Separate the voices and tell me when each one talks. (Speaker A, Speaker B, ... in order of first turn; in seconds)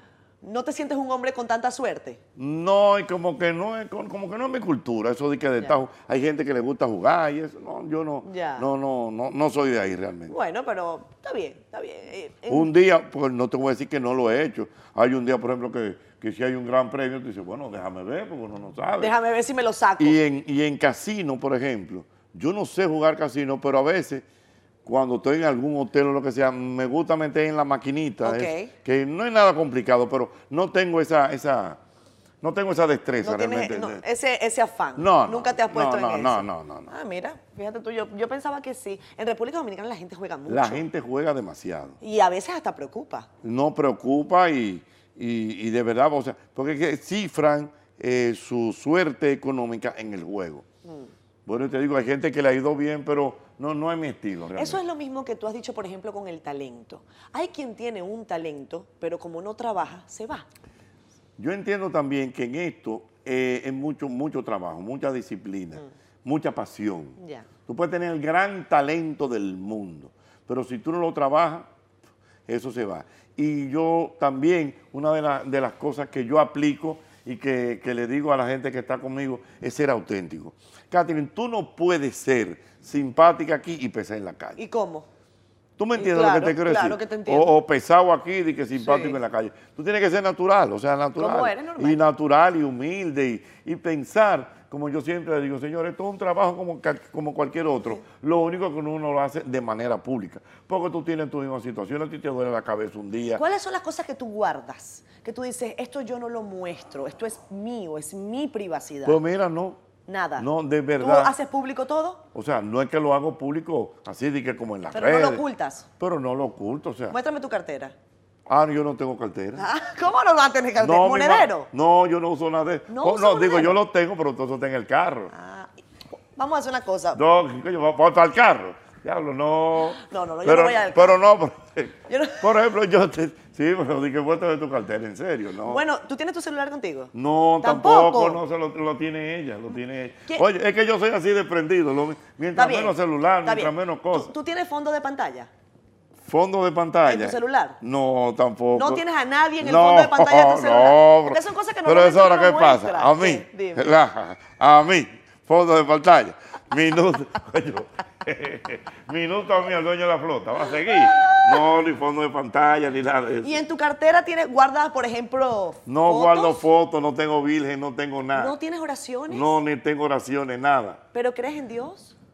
Speaker A: 0.4-2.2, 8.2-8.7, 10.3-12.7, 19.0-20.2, 28.2-28.7, 33.2-40.8, 42.0-43.3, 50.8-51.1, 54.5-60.5, 67.2-67.5, 84.6-85.1, 86.0-87.5, 88.8-89.2, 91.2-92.0, 103.3-109.2, 110.1-110.5, 111.0-112.2, 114.9-115.9, 117.1-117.9, 119.5-121.7, 122.9-123.8, 125.3-127.2, 130.0-131.2, 132.1-132.4, 135.6-138.4, 142.5-145.5, 147.0-147.8, 148.7-153.9, 161.2-161.5, 163.4-166.6, 168.3-169.5, 171.1-172.2
Speaker B: 2.4-10.3, 12.5-19.1, 20.0-24.2, 24.8-31.8, 32.4-34.0, 35.0-36.9, 40.5-42.0, 43.4-50.6, 51.5-54.8, 61.4-71.7, 72.5-84.6, 85.8-103.4, 109.0-109.8, 110.4-111.3, 112.3-115.4, 116.0-117.1, 118.5-119.6, 120.8-125.3, 127.1-135.8, 137.1-144.3, 146.2-149.0, 149.6-163.6, 165.8-168.5, 169.3-171.0